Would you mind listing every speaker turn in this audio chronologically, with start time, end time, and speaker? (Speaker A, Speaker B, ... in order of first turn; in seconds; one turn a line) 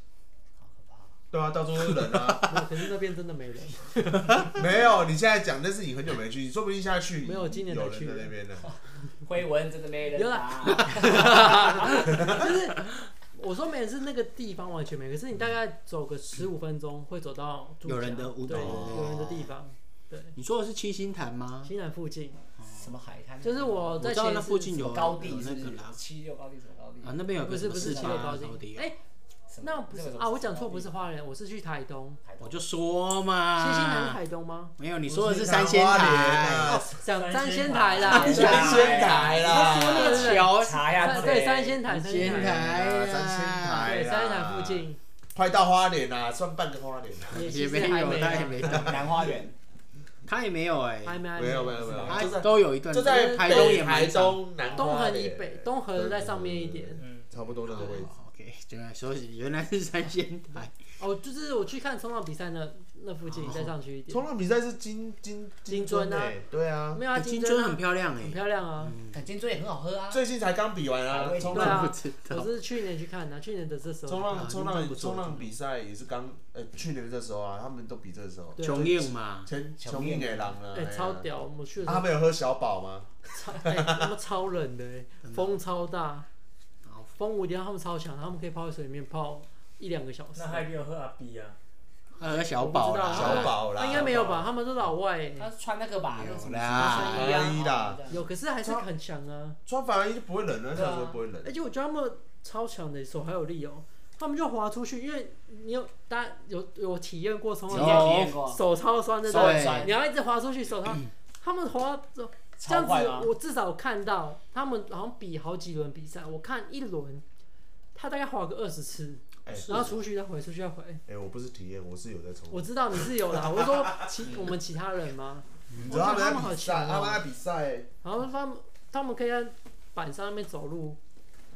Speaker A: 0.6-1.2
Speaker B: 1.3-2.6
Speaker C: 2.5-4.5
Speaker B: 4.5-8.7
Speaker C: 7.2-8.3
Speaker A: 8.7-12.5
Speaker C: 10.2-20.4
Speaker D: 17.9-19.4
Speaker B: 18.5-19.1
Speaker D: 20.4-21.7
Speaker C: 21.6-22.4
Speaker D: 22.6-22.9
Speaker A: 22.6-24.0
Speaker C: 23.4-24.9
Speaker D: 24.0-26.0
Speaker A: 24.7-28.4
Speaker D: 27.0-28.9
Speaker C: 27.4-29.0
Speaker A: 29.5-30.9
Speaker C: 29.6-32.2
Speaker A: 32.2-32.6
Speaker D: 32.4-34.2
Speaker C: 33.6-34.8
Speaker D: 34.8-36.9
Speaker B: 35.1-36.9
Speaker C: 36.9-42.7
Speaker E: 37.0-39.4
Speaker A: 38.0-41.8
Speaker B: 38.1-40.4
Speaker D: 38.1-38.9
Speaker D: 39.5-43.9
Speaker E: 41.0-41.4
Speaker B: 42.1-47.5
Speaker C: 43.8-45.0
Speaker C: 47.3-49.0
Speaker D: 47.4-49.1
Speaker A: 48.1-49.6
Speaker B: 48.7-49.3
Speaker D: 50.3-54.5
Speaker C: 51.0-52.4
Speaker B: 51.4-58.1
Speaker C: 53.0-53.9
Speaker C: 54.8-57.0
Speaker E: 57.0-57.3
Speaker D: 57.7-60.7
Speaker C: 57.8-58.0
Speaker C: 61.0-64.3
Speaker D: 63.3-63.7
Speaker B: 64.1-67.0
Speaker C: 65.7-66.4
Speaker C: 66.9-69.0
Speaker D: 67.1-69.2
Speaker A: 69.1-70.2
Speaker B: 70.1-71.9
Speaker A: 71.1-71.8
Speaker C: 71.5-74.5
Speaker D: 71.6-72.5
Speaker B: 74.1-81.3
Speaker D: 74.3-75.5
Speaker C: 78.6-78.9
Speaker D: 78.6-79.5
Speaker A: 79.8-80.5
Speaker C: 80.7-82.1
Speaker B: 81.8-84.1
Speaker C: 83.3-86.3
Speaker D: 85.2-85.5
Speaker D: 86.8-87.1
Speaker C: 87.2-90.7
Speaker E: 90.4-91.6
Speaker D: 92.2-93.7
Speaker C: 92.5-95.5
Speaker B: 93.1-94.5
Speaker A: 95.3-98.2
Speaker D: 96.1-97.4
Speaker C: 96.8-97.5
Speaker B: 96.9-98.1
Speaker C: 98.1-99.6
Speaker B: 99.7-101.5
Speaker A: 100.8-101.2
Speaker C: 101.4-117.2
Speaker D: 107.7-108.4
Speaker A: 107.7-108.6
Speaker A: 109.3-109.9
Speaker D: 109.3-109.9
Speaker B: 109.4-109.8
Speaker A: 112.6-113.3
Speaker C: 118.0-121.0
Speaker B: 119.5-120.0
Speaker D: 119.5-119.9
Speaker B: 121.1-124.1
Speaker C: 122.5-127.2
Speaker D: 125.7-126.0
Speaker B: 125.8-127.9
Speaker C: 128.0-131.0